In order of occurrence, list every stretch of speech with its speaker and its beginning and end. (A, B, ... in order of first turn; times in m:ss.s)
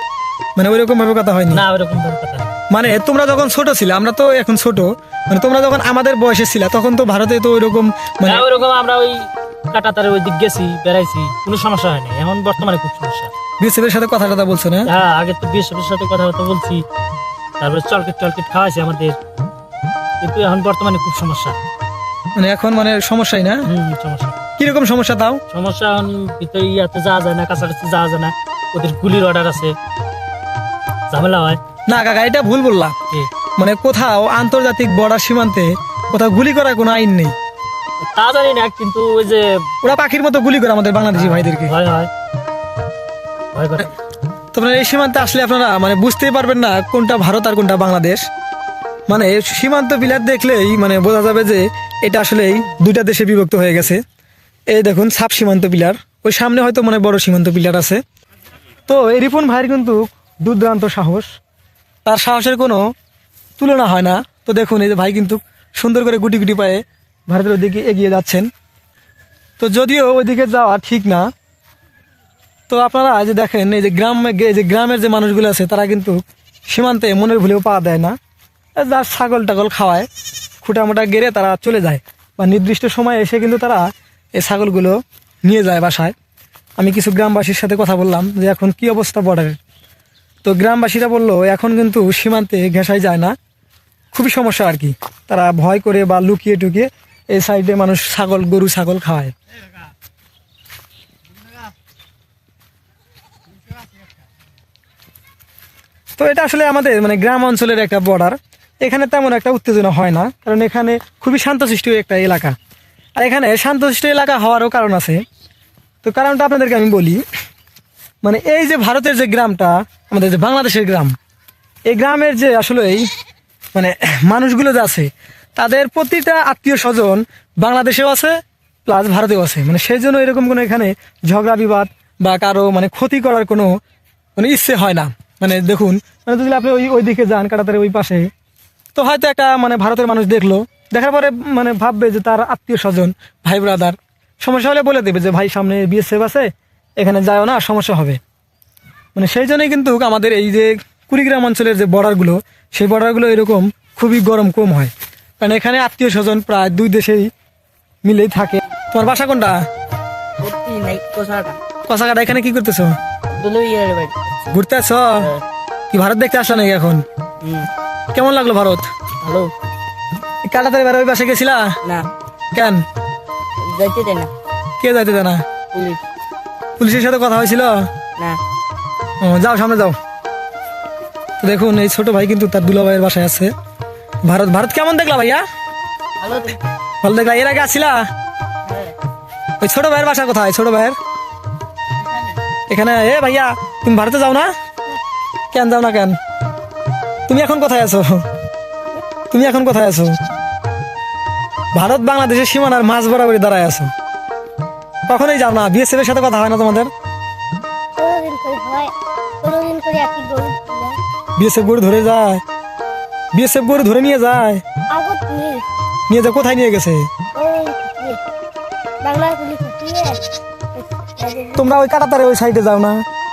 0:00.6-0:01.6 A
0:01.5-0:02.5 B
0:02.7-0:08.5 A
0:08.2-0:13.3 B
0:13.6-0:14.9 A
0:14.8-0:16.8 B
0:17.6-0:19.2 B
0:20.2-0:21.6 B
0:22.4-0:23.7 A
0:23.6-0:24.4 B
0:24.6-0:25.4 A
0:25.5-0:29.8 B
0:31.1-0:31.6 B
0:31.9-0:33.0 A
0:33.6-0:37.3 A
0:38.0-0:39.8 B
0:39.8-0:41.8 A
0:41.1-0:42.1 B
0:43.5-0:43.9 B
0:44.5-0:48.2 A
0:49.1-0:54.0 A
0:54.7-0:58.0 A
0:58.9-1:01.4 A
1:02.0-1:02.9 A
1:03.6-1:08.5 A
1:09.6-1:11.3 A
1:12.7-1:18.2 A
1:18.8-1:20.1 A
1:20.6-1:23.8 A
1:24.4-1:26.2 A
1:26.8-1:29.6 A
1:30.4-1:33.4 A
1:34.1-1:39.3 A
1:46.2-1:52.6 A
1:53.2-1:55.2 A
1:56.0-1:57.2 A
1:58.2-2:01.2 A
2:01.9-2:03.1 A
2:03.7-2:13.7 A
2:14.4-2:18.3 A
2:19.0-2:28.2 A
2:29.2-2:37.3 A
2:38.0-2:39.6 A
2:40.4-2:41.6 C
2:41.9-2:43.0 A
2:43.3-2:44.5 C
2:44.5-2:45.3 A
2:45.9-2:47.0 A
2:47.4-2:47.7 C
2:48.1-2:48.9 A
2:49.2-2:49.5 C
2:50.5-2:51.8 A
2:51.8-2:52.1 C
2:52.5-2:52.8 A
2:53.6-2:54.3 C
2:54.8-2:55.4 A
2:55.7-2:56.0 C
2:56.8-2:57.8 A
2:59.2-3:00.0 A
3:01.4-3:03.5 A
3:04.2-3:05.4 A
3:06.2-3:06.6 C
3:07.0-3:08.1 A
3:09.6-3:11.0 A
3:12.7-3:14.5 A
3:15.5-3:16.2 A
3:17.3-3:18.2 A
3:19.3-3:20.2 A
3:21.7-3:23.9 A
3:25.1-3:26.9 A
3:28.0-3:31.0 C
3:31.4-3:32.4 A
3:33.3-3:34.6 A
3:34.9-3:35.6 C
3:36.1-3:37.1 A
3:37.3-3:38.2 C
3:39.0-3:40.2 C
3:40.8-3:41.6 C
3:41.6-3:43.0 A